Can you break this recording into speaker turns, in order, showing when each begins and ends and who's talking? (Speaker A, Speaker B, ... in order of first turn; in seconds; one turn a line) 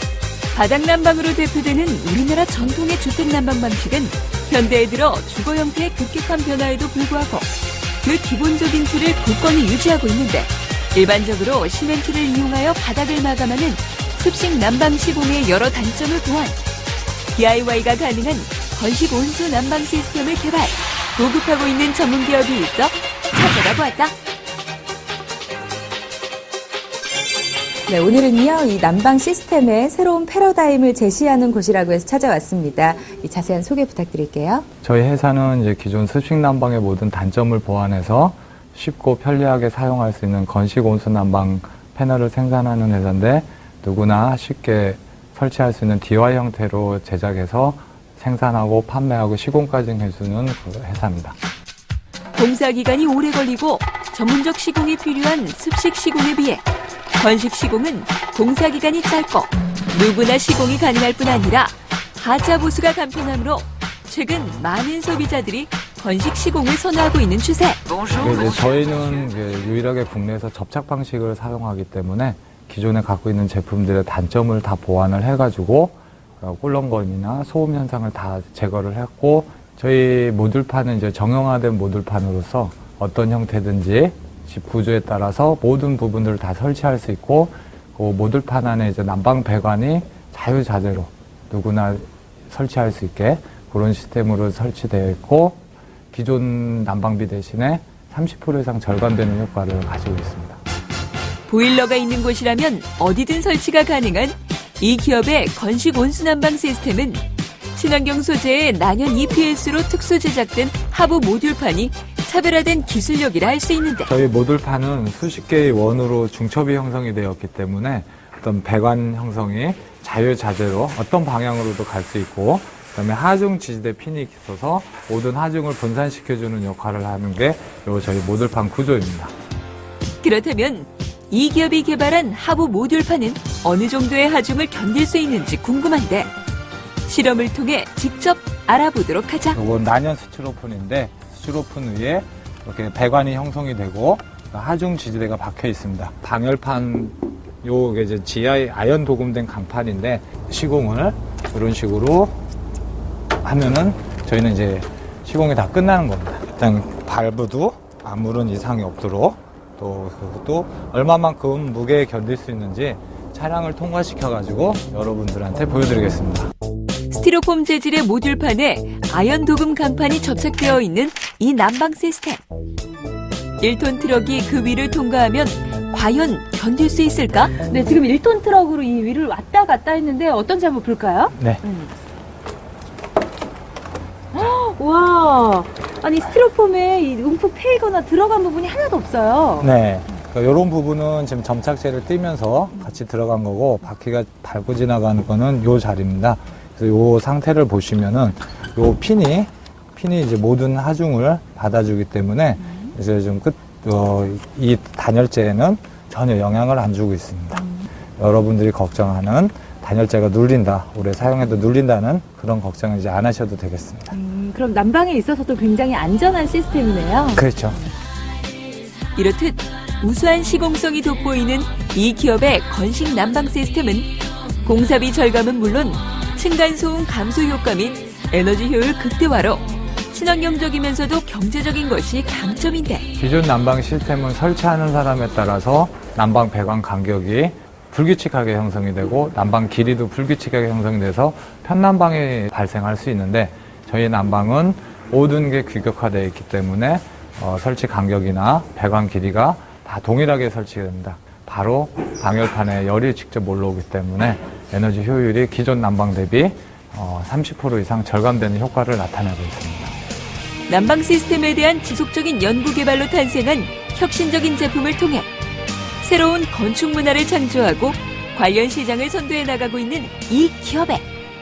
Speaker A: 0.5-16.6
Speaker A: 17.3-24.1
Speaker B: 27.9-34.6
Speaker C: 34.8-51.3
Speaker A: 52.3-56.6
Speaker A: 57.1-67.8
Speaker C: 68.1-95.6
Speaker C: 96.1-100.6
Speaker A: 101.5-107.2
Speaker A: 107.7-114.1
Speaker C: 114.1-129.3
Speaker A: 130.2-136.3
Speaker A: 137.1-139.6
Speaker C: 139.5-152.4
Speaker C: 153.4-166.5
Speaker A: 167.1-172.4
Speaker A: 173.6-177.6
Speaker B: 177.6-181.9
Speaker C: 181.3-181.6
Speaker B: 184.3-189.7
Speaker C: 189.6-214.1
Speaker B: 214.1-217.4
Speaker C: 217.3-217.8
Speaker A: 219.2-233.1
Speaker C: 233.2-259.9
Speaker A: 260.7-265.3
Speaker A: 266.0-271.0